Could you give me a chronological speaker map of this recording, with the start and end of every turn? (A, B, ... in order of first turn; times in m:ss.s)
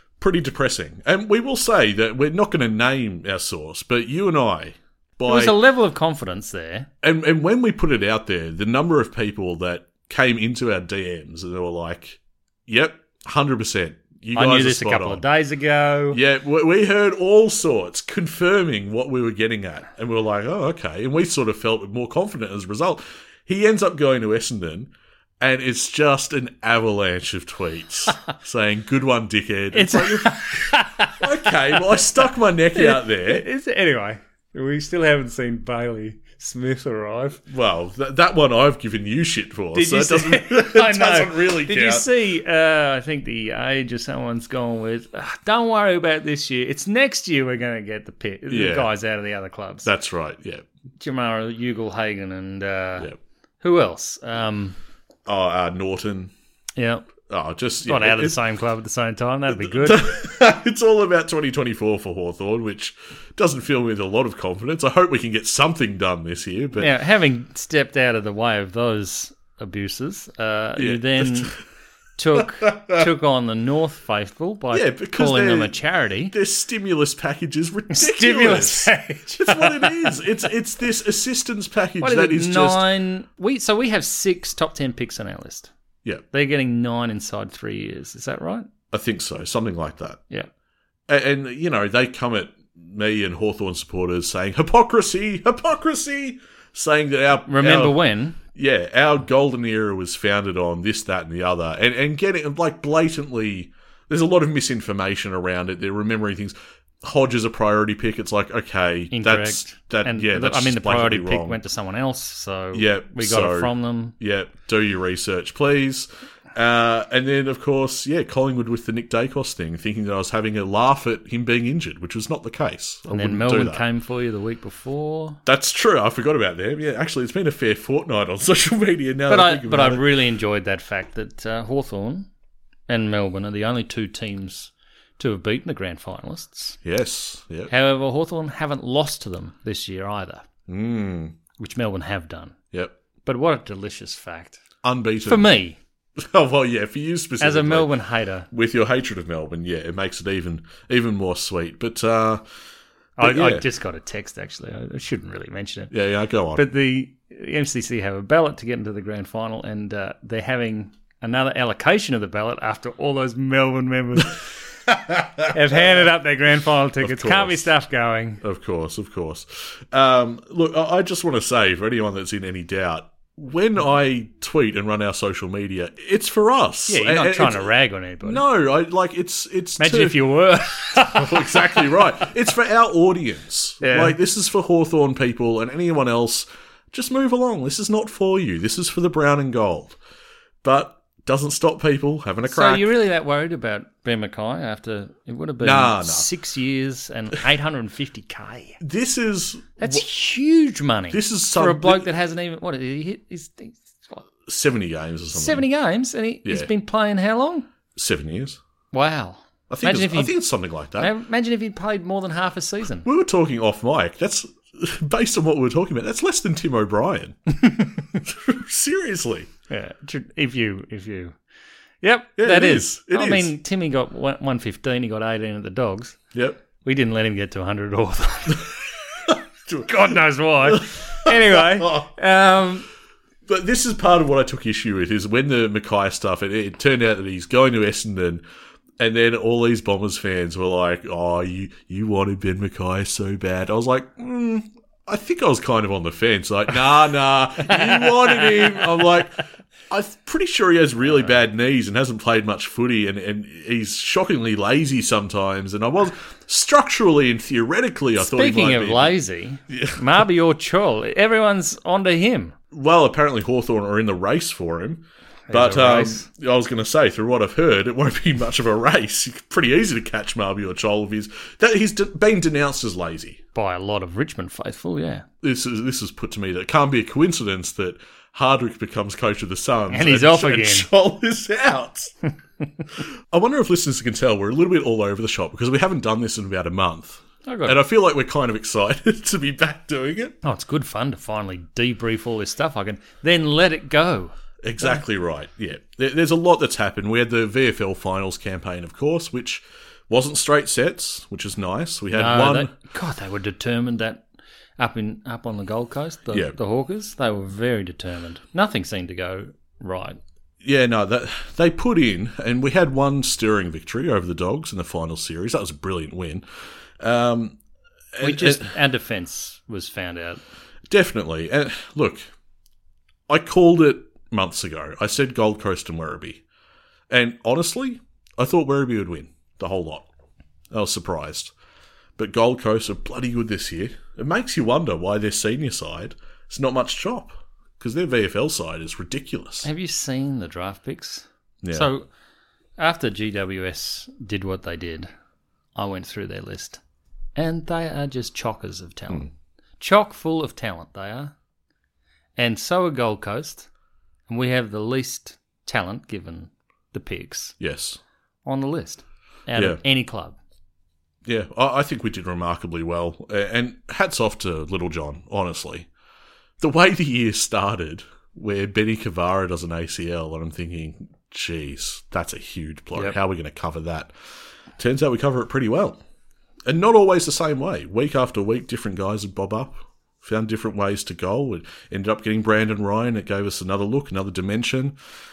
0:00.2-0:05.6 A
0:05.2-0:06.9 B
0:07.0-0:15.2 A
0:14.4-0:16.2 B
0:16.1-0:33.4 A
0:29.7-0:37.4 B
0:37.5-0:42.1 A
0:39.7-0:49.9 B
0:48.5-0:48.9 A
0:49.8-0:50.6 A
0:51.0-0:54.8 B
0:55.3-0:56.3 A
0:56.8-0:57.1 B
0:57.3-0:58.4 A
0:57.8-1:00.1 B
0:59.5-1:06.9 A
1:06.8-1:11.6 B
1:10.8-1:11.6 A
1:12.2-1:16.3 B
1:12.4-1:13.1 A
1:14.7-1:15.8 A
1:16.3-1:22.9 A
1:17.9-1:20.2 B
1:22.0-1:25.7 B
1:26.3-1:28.7 B
1:28.9-1:30.2 A
1:31.1-1:38.0 A
1:37.5-1:38.4 B
1:38.5-1:51.6 A
1:49.1-1:54.2 B
1:52.7-2:03.8 A
2:03.1-2:05.4 B
2:05.5-2:10.0 A
2:09.3-2:12.3 B
2:12.9-2:16.8 B
2:16.8-2:17.7 A
2:17.7-2:20.4 B
2:20.7-2:21.4 A
2:21.6-2:22.6 B
2:23.2-2:24.6 B
2:24.8-2:25.5 A
2:25.2-2:25.8 B
2:26.2-2:27.9 A
2:27.4-2:28.5 B
2:28.5-2:32.4 A
2:33.2-2:35.9 B
2:33.2-2:33.6 A
2:35.9-2:36.6 A
2:36.6-2:44.6 B
2:44.9-2:46.0 A
2:45.5-2:48.4 B
2:47.0-2:47.7 A
2:48.4-2:57.7 A
2:56.9-2:58.4 B
2:58.2-3:00.2 A
2:59.8-3:02.3 B
3:01.0-3:10.0 A
3:03.8-3:04.2 B
3:10.6-3:12.9 A
3:12.4-3:18.8 B
3:15.6-3:16.3 A
3:18.8-3:20.0 A
3:19.8-3:24.3 B
3:21.1-3:22.1 A
3:24.5-3:25.6 A
3:25.3-3:27.7 B
3:26.4-3:26.7 A
3:28.0-3:28.6 A
3:28.9-3:30.4 B
3:29.7-3:31.1 A
3:31.0-3:33.1 B
3:33.0-3:37.4 A
3:38.2-3:39.5 A
3:39.7-3:41.4 B
3:42.0-3:46.2 B
3:42.4-3:43.5 A
3:46.3-3:46.6 A
3:46.8-3:48.9 B
3:49.3-3:52.1 A
3:49.8-3:52.9 B
3:53.5-3:58.4 A
3:59.0-4:19.2 A
4:07.9-4:08.9 B
4:18.2-4:22.6 B
4:19.7-4:20.0 A
4:22.7-4:33.4 A
4:25.5-4:26.3 B
4:33.6-4:35.3 B
4:35.4-4:42.1 A
4:39.9-4:40.9 B
4:43.0-4:50.4 A
4:47.5-4:47.8 B
4:50.4-4:55.0 B
4:54.6-5:02.7 A
5:02.1-5:04.3 B
5:04.8-5:10.2 B
5:06.3-5:06.6 A
5:10.6-5:16.4 A
5:17.0-5:17.6 A
5:18.2-5:18.7 A
5:18.2-5:20.4 B
5:20.9-5:22.3 A
5:23.3-5:26.4 A
5:27.1-5:30.1 A
5:30.7-5:31.5 A
5:32.2-5:39.7 A
5:39.6-5:42.1 B
5:41.6-5:41.9 A
5:42.8-5:45.1 B
5:45.8-5:46.8 B
5:47.4-5:51.3 B
5:52.4-5:53.7 B
5:54.3-5:57.6 B
5:57.6-5:58.0 A
5:58.4-6:00.4 B
6:01.3-6:05.9 A
6:06.6-6:14.1 A
6:14.8-6:16.0 A
6:16.7-6:25.0 A